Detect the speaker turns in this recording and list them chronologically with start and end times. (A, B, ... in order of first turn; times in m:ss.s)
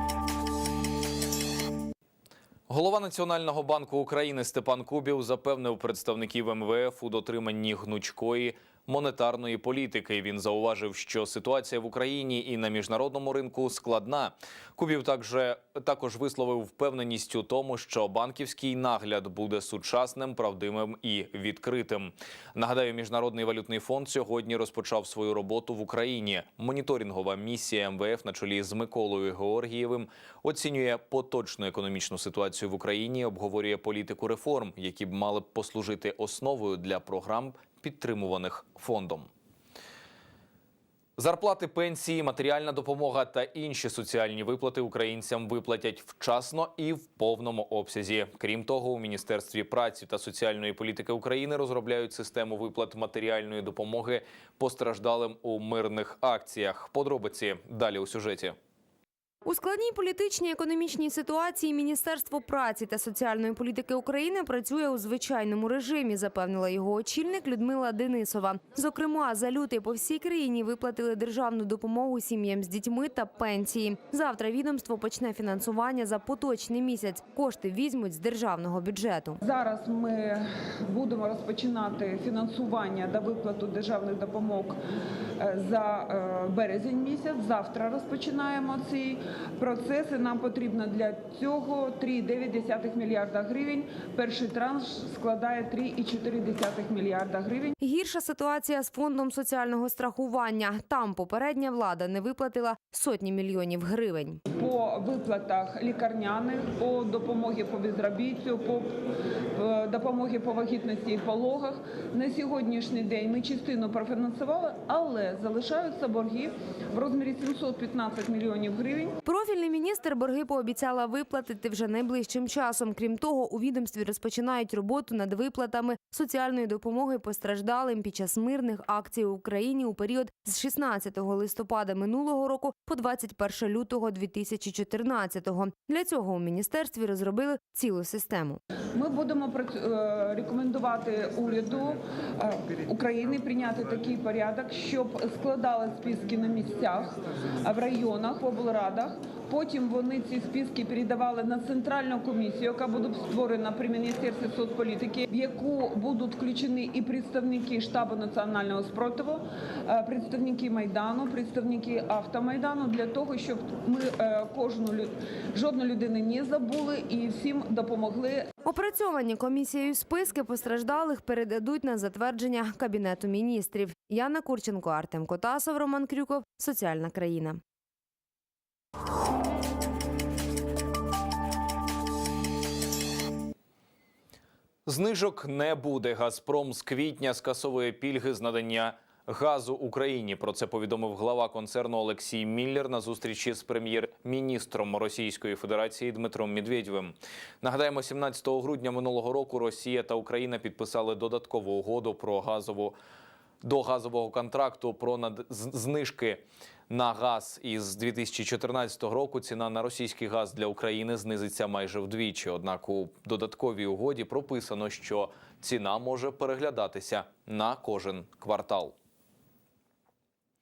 0:02.7-0:39.3 A
0:41.2-0:58.6 A
0:59.5-1:19.4 B
1:19.5-1:24.8 C
1:25.6-1:37.7 C
1:37.8-1:44.4 B
1:44.6-1:48.9 C
1:49.6-1:59.1 C
1:59.2-2:18.6 B
2:19.0-2:21.9 C
2:22.9-2:27.1 C
2:27.7-2:39.4 C
2:40.0-2:48.5 C
2:48.6-2:57.6 B
3:04.9-3:23.0 A
3:23.6-3:39.0 A